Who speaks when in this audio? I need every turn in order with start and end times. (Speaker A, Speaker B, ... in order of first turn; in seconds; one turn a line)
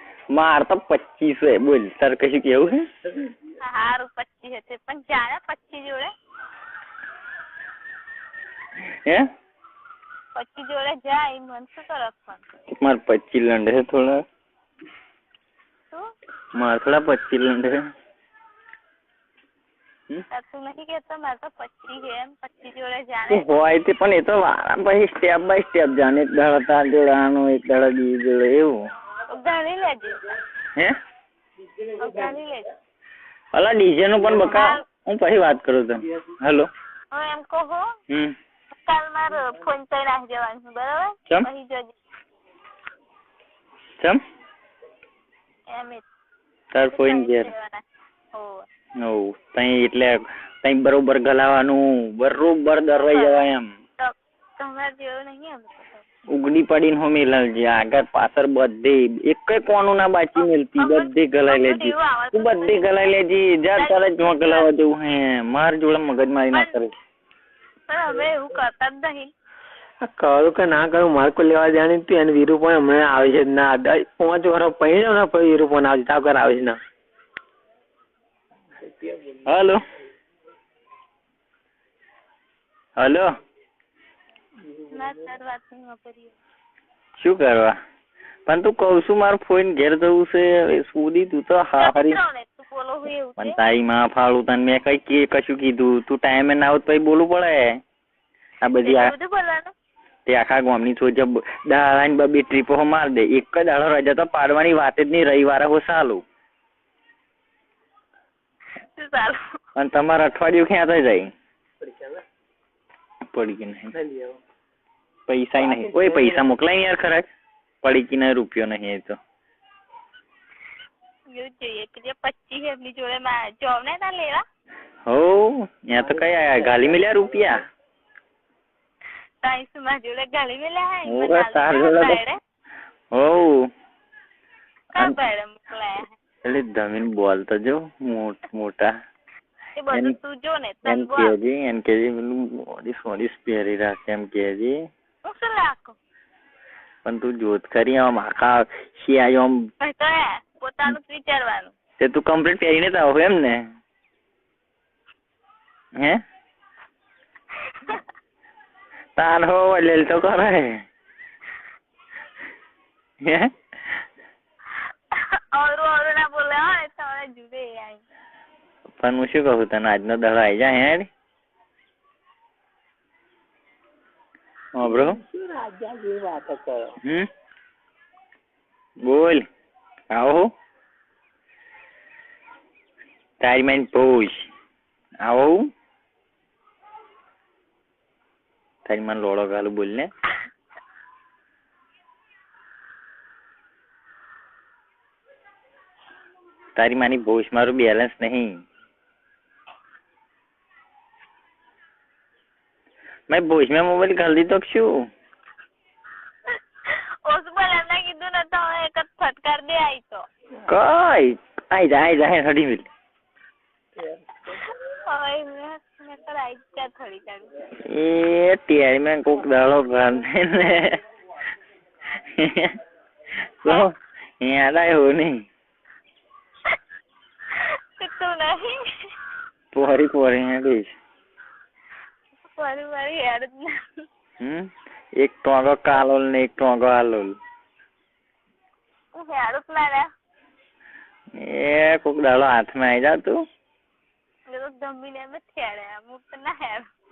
Speaker A: 0.3-2.9
Speaker B: 3.6-6.1
Speaker A: 8.8-9.3
Speaker B: 10.3-12.4
Speaker A: 12.7-14.2
Speaker A: 16.5-17.9
Speaker B: 20.3-23.5
Speaker A: 23.3-28.8
Speaker B: 29.3-30.3
Speaker B: 32.0-32.7
Speaker A: 33.5-36.7
Speaker B: 34.2-34.8
Speaker B: 37.1-37.9
Speaker A: 38.1-38.4
Speaker B: 38.8-42.0
Speaker B: 45.7-46.0
Speaker A: 46.7-47.5
Speaker B: 46.9-48.7
Speaker A: 49.0-53.7
Speaker B: 53.0-53.5
Speaker B: 54.0-56.0
Speaker A: 56.3-66.9
Speaker B: 60.4-63.1
Speaker B: 63.8-64.7
Speaker B: 67.9-69.3
Speaker C: 70.0-76.8
Speaker C: 78.8-79.5
Speaker A: 79.4-79.8
Speaker A: 83.0-83.3
Speaker C: 84.6-85.3
Speaker B: 84.9-86.3
Speaker A: 87.2-87.7
Speaker A: 88.5-92.2
Speaker B: 91.8-93.6
Speaker A: 93.4-97.8
Speaker A: 98.6-99.1
Speaker B: 98.8-99.7
Speaker A: 100.3-106.2
Speaker B: 109.0-109.6
Speaker A: 109.8-111.3
Speaker C: 111.8-112.2
Speaker A: 113.3-113.9
Speaker C: 113.9-114.4
Speaker A: 115.3-117.3
Speaker C: 115.5-116.5
Speaker A: 117.8-119.2
Speaker B: 121.3-124.4
Speaker A: 125.0-127.6
Speaker C: 125.9-127.6
Speaker B: 129.4-132.4
Speaker A: 131.1-132.2
Speaker A: 133.1-133.7
Speaker B: 134.9-136.1
Speaker A: 136.4-138.9
Speaker B: 139.8-141.3
Speaker A: 140.8-144.8
Speaker B: 145.2-145.9
Speaker A: 147.0-149.7
Speaker B: 149.8-151.7
Speaker A: 152.0-153.7
Speaker A: 155.9-156.2
Speaker B: 157.7-158.0
Speaker A: 159.2-160.8
Speaker A: 163.2-163.9
Speaker B: 165.1-168.0
Speaker A: 169.0-171.1
Speaker A: 174.7-175.2
Speaker C: 174.8-177.0
Speaker A: 177.0-177.3
Speaker A: 179.0-179.4
Speaker A: 180.1-180.5
Speaker A: 183.4-184.5
Speaker A: 185.2-185.7
Speaker A: 188.8-190.1
Speaker A: 196.8-198.6
Speaker A: 203.3-205.0
Speaker B: 206.5-210.3
Speaker A: 210.7-212.9
Speaker C: 213.9-214.6
Speaker B: 215.1-217.7
Speaker A: 217.8-221.0
Speaker A: 222.2-222.8
Speaker A: 223.4-225.5
Speaker B: 227.5-229.1
Speaker A: 229.7-230.9
Speaker B: 232.6-234.1
Speaker A: 234.4-237.3
Speaker B: 239.1-240.1
Speaker A: 241.3-243.4
Speaker B: 244.5-246.9